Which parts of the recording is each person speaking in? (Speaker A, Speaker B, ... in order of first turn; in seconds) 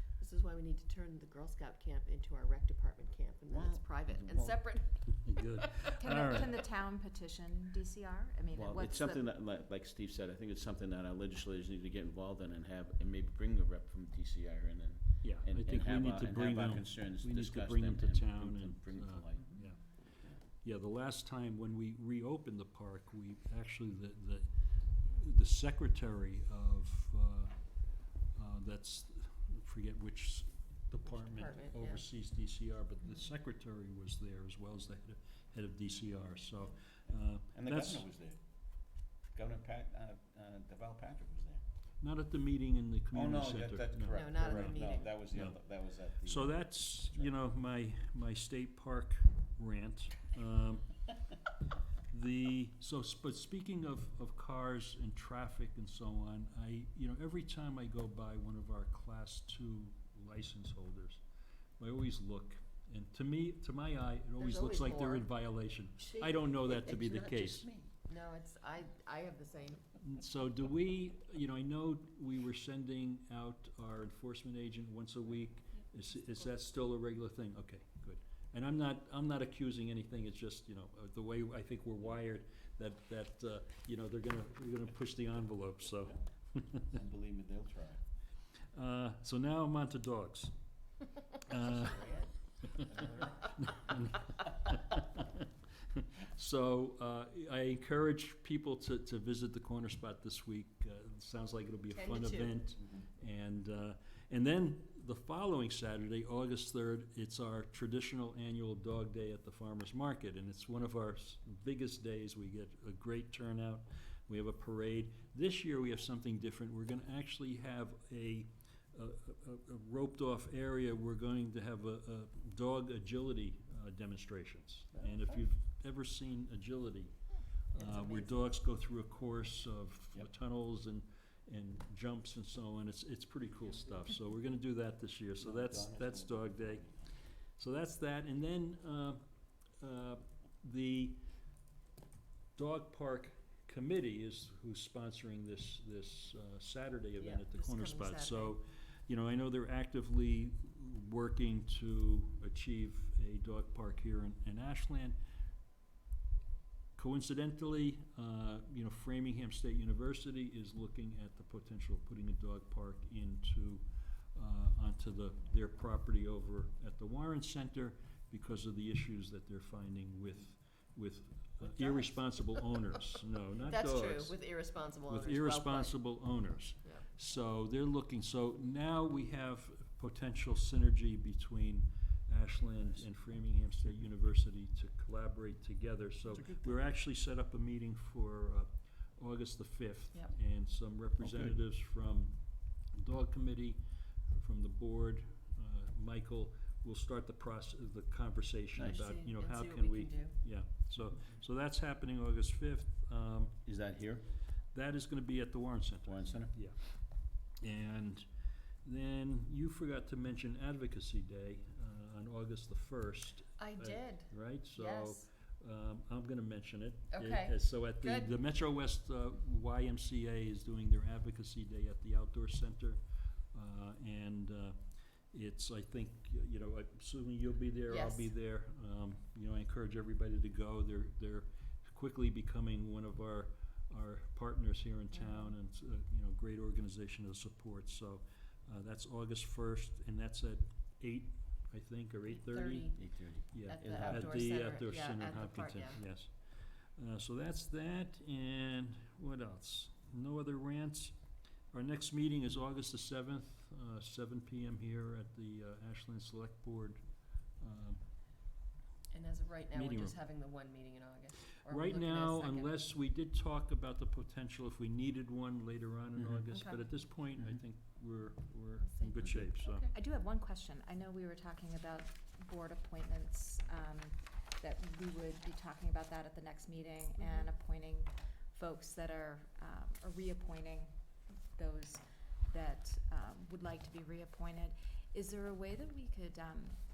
Speaker A: 0.2-5.9, 31.1-32.0, 44.1-45.1, 64.4-65.2, 68.1-69.8, 101.9-102.5, 127.8-128.4, 147.2-148.5, 171.7-172.6, 173.6-176.2, 198.8-200.3, 213.6-215.2, 217.1-218.3, 227.9-228.3, 242.3-243.0, 243.7-246.0, 259.1-262.7, 268.8-269.9
Speaker B: 3.5-4.6, 8.5-19.5, 37.5-38.4, 39.3-41.6, 43.1-47.3, 66.7-67.9, 86.9-88.0, 91.6-93.5, 135.4-136.9, 191.2-191.6, 203.6-204.2, 206.1-206.5, 242.9-244.3
Speaker C: 5.2-6.5, 15.2-19.8, 20.6-24.5, 25.0-27.5, 28.3-38.0, 42.0-45.6, 46.2-51.0, 52.1-61.2, 61.8-67.7, 70.0-86.9, 88.7-90.5, 91.5-92.0, 93.4-127.1, 127.7-136.8, 137.6-139.2, 139.8-141.2, 142.6-155.2, 156.9-174.4, 175.1-192.4, 192.9-193.8, 194.3-203.6, 204.7-206.8, 207.6-208.2, 208.8-223.0, 223.5-224.8, 225.3-243.0, 243.5-251.1, 251.7-257.0, 257.6-258.0, 259.7-260.2, 261.6-269.9
Speaker D: 6.0-9.2, 269.9-280.9, 281.5-286.8